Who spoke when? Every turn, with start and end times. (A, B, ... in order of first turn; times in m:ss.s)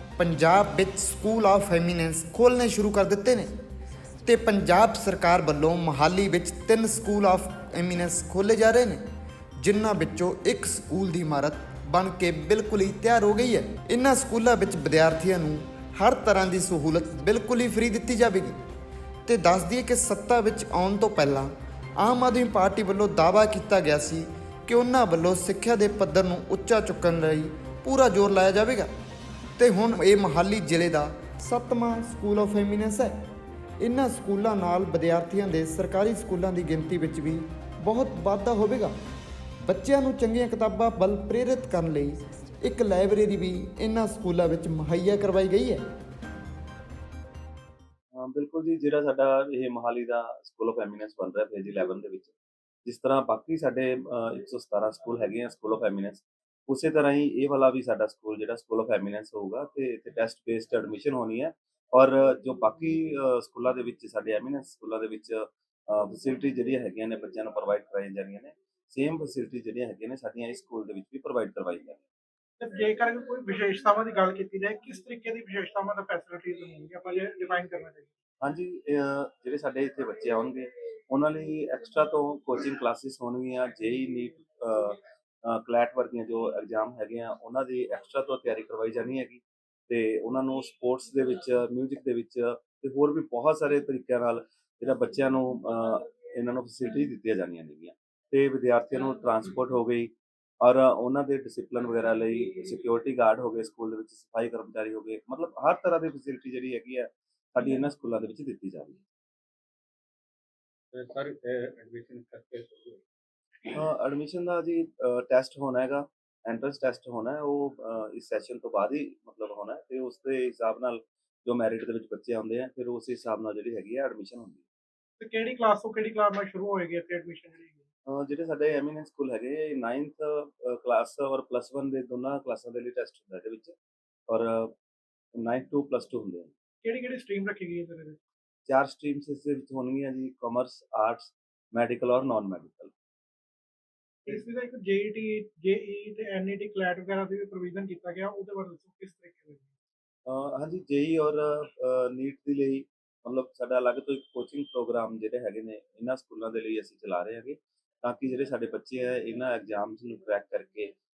0:00.2-0:03.5 A
0:04.3-0:09.0 A
0:09.6-0:18.6 A
0:19.3-0:28.9 A
0:29.6-0:33.2 A
0:33.8-0:38.9 A
0:39.7-0:45.8 A
0:48.1-0:52.3 B
0:52.8-1:12.0 B
1:12.6-1:18.1 C
1:18.4-1:49.0 B
1:50.9-1:53.0 D
1:53.7-2:04.6 B
2:05.2-2:07.8 C
2:08.1-2:13.7 B
2:14.3-2:14.8 B
2:15.4-2:16.5 B
2:16.8-2:18.2 C
2:18.7-2:22.9 B
2:24.2-2:29.7 C
2:30.3-2:40.9 B